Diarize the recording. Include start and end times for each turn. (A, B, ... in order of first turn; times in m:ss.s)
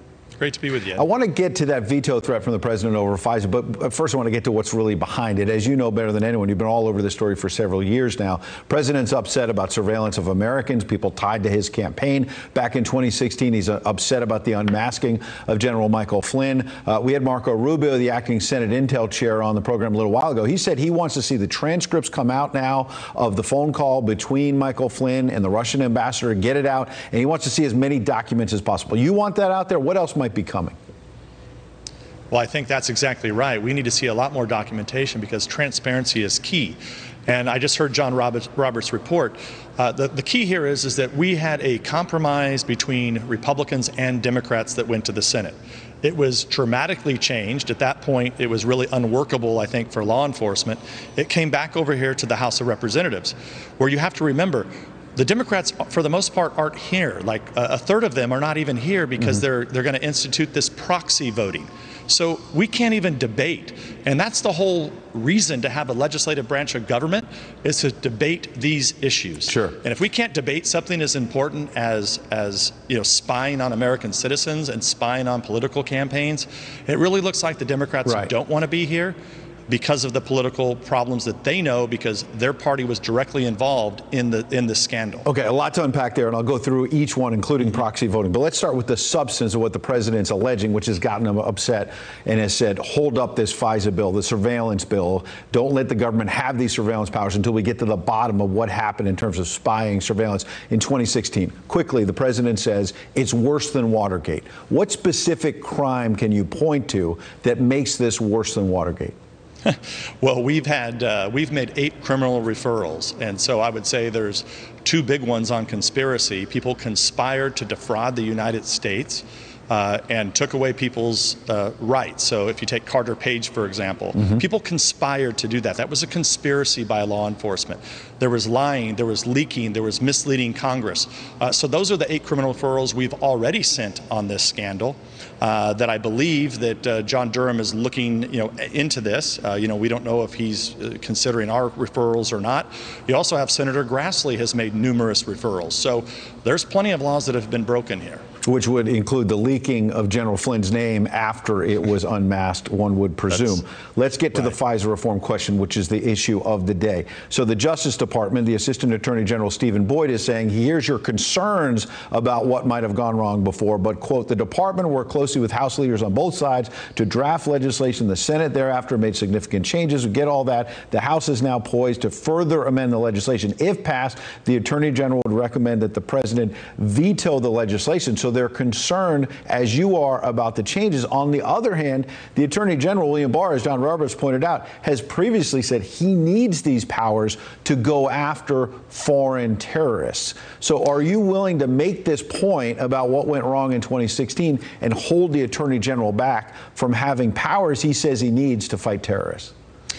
0:00.4-0:01.0 A
0:01.0-0:30.8 B
0:32.3-1:19.2 A
1:09.5-1:09.8 B
1:19.7-1:25.3 A
1:25.2-1:49.1 B
1:49.6-2:28.2 A
2:28.4-3:19.5 B